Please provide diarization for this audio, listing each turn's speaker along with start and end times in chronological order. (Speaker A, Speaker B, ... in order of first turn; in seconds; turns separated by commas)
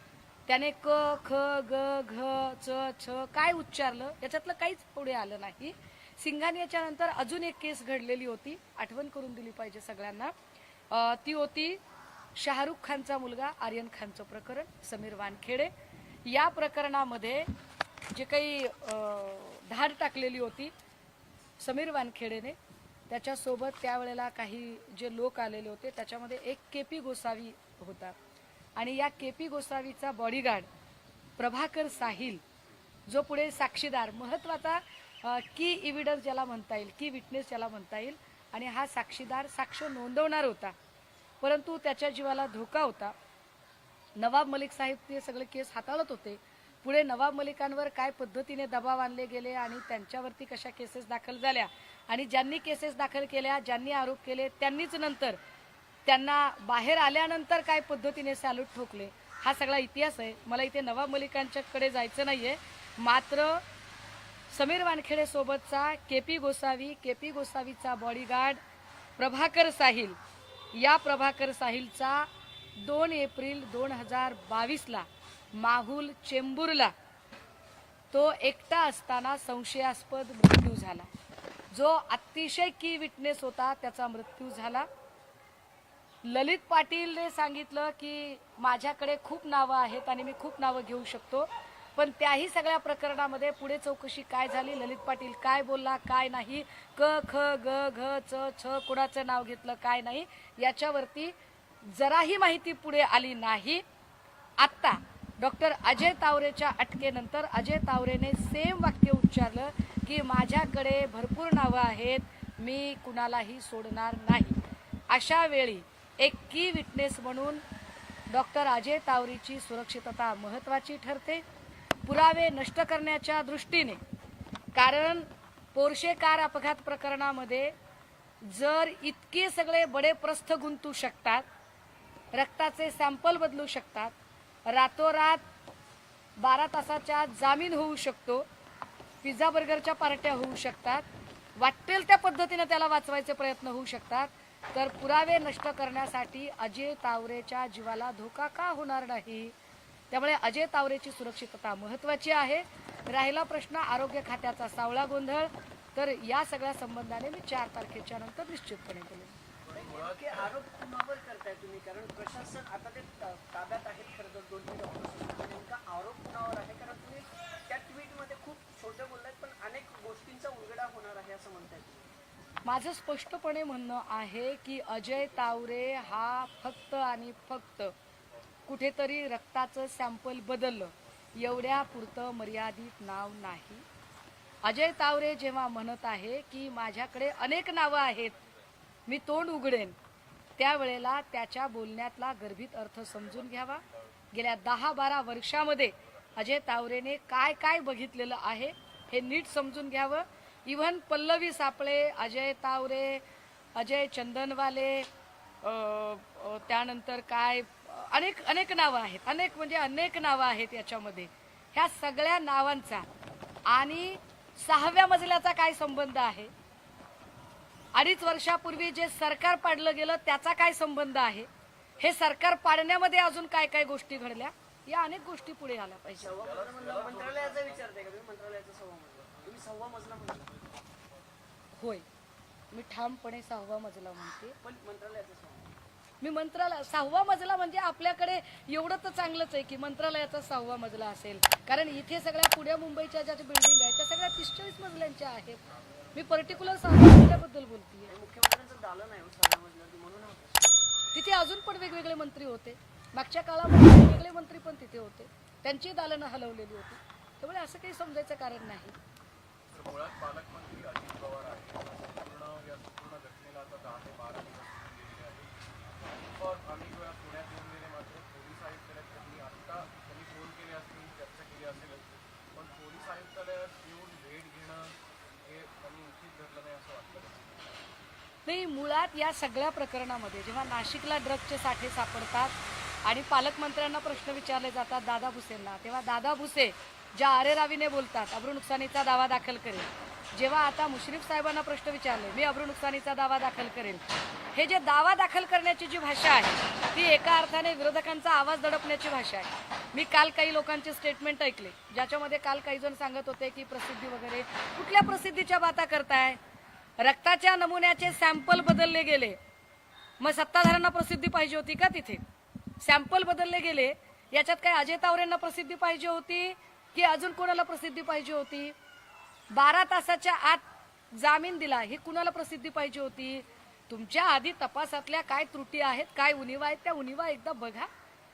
Speaker A: 0.5-10.3, Speaker A: 10.9-11.8, Speaker A: 12.4-15.7, Speaker A: 16.2-17.5, Speaker A: 18.1-20.7, Speaker A: 21.6-22.6, Speaker A: 23.1-28.1, Speaker A: 28.8-30.7, Speaker A: 31.4-32.4, Speaker A: 33.1-40.7, Speaker A: 41.4-43.1, Speaker A: 44.2-55.4, Speaker A: 56.1-63.6, Speaker A: 64.5-68.6, Speaker A: 69.2-70.2, Speaker A: 70.7-72.3, Speaker A: 72.8-76.9, Speaker A: 78.1-81.1, Speaker A: 81.7-84.9, Speaker A: 86.2-101.3, Speaker A: 101.9-103.8, Speaker A: 104.6-117.6, Speaker A: 118.3-121.4, Speaker A: 122.1-124.0, Speaker A: 124.8-127.7, Speaker A: 128.4-131.4, Speaker A: 132.3-134.1, Speaker A: 134.7-135.4, Speaker A: 136.4-138.5, Speaker A: 139.2-141.1, Speaker A: 141.6-149.5, Speaker A: 150.1-159.4, Speaker B: 159.6-160.5, Speaker C: 159.8-172.1, Speaker A: 172.7-177.9, Speaker A: 178.7-183.8, Speaker A: 184.6-188.4, Speaker A: 189.1-190.0, Speaker A: 190.6-203.2, Speaker A: 203.8-205.1, Speaker A: 205.6-213.1, Speaker A: 213.7-216.5, Speaker A: 217.9-221.5, Speaker A: 222.0-226.4, Speaker C: 226.2-230.5, Speaker B: 226.3-227.9, Speaker A: 231.8-232.1, Speaker A: 232.7-234.6, Speaker C: 234.6-235.8, Speaker A: 236.2-245.6, Speaker A: 246.1-248.1, Speaker C: 248.1-250.8, Speaker A: 251.1-259.0, Speaker B: 259.7-265.5, Speaker B: 266.4-277.8, Speaker A: 278.5-294.0, Speaker A: 294.5-306.4, Speaker A: 307.0-309.4, Speaker A: 310.2-312.2, Speaker A: 312.8-318.8, Speaker A: 319.5-327.9